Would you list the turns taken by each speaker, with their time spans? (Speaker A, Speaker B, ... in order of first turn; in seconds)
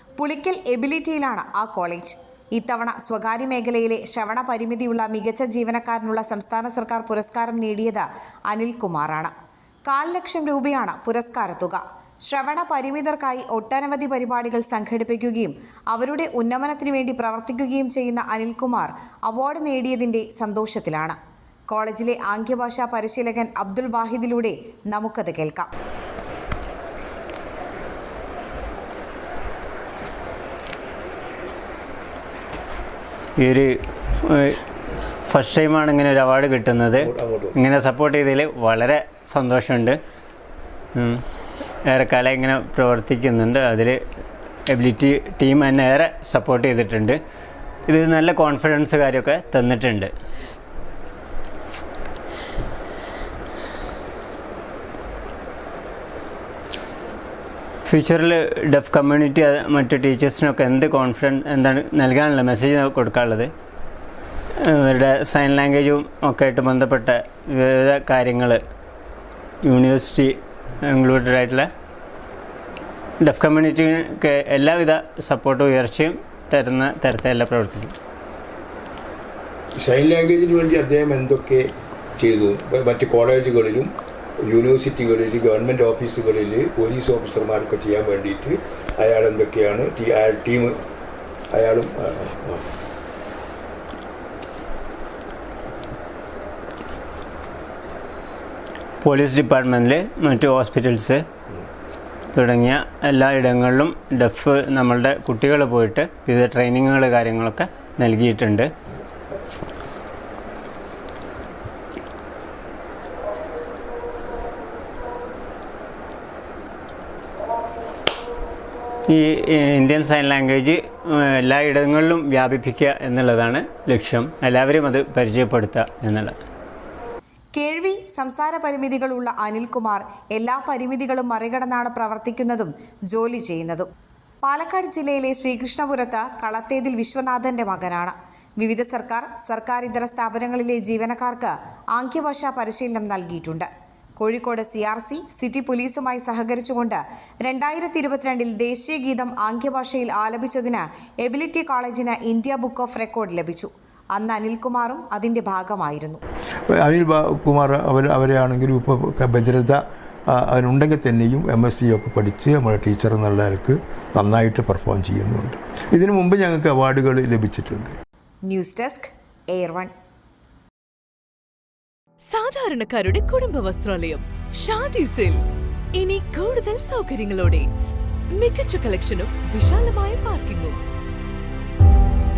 Speaker A: 0.2-9.3, 9.9-21.2, 21.7-25.7, 127.5-133.9, 134.4-143.7, 144.2-156.2, 168.4-169.9
Speaker B: 33.4-34.6, 35.3-40.0, 41.0-41.2, 41.9-44.0, 44.7-47.2, 47.9-50.1, 57.8-63.5, 64.6-68.6, 69.6-71.7, 73.2-77.9, 99.0-101.2, 102.3-108.7, 119.1-126.3
Speaker C: 37.0-37.6, 79.8-83.9, 84.4-90.8, 91.5-92.7, 156.7-167.9
Speaker D: 172.3-177.6, 178.3-180.8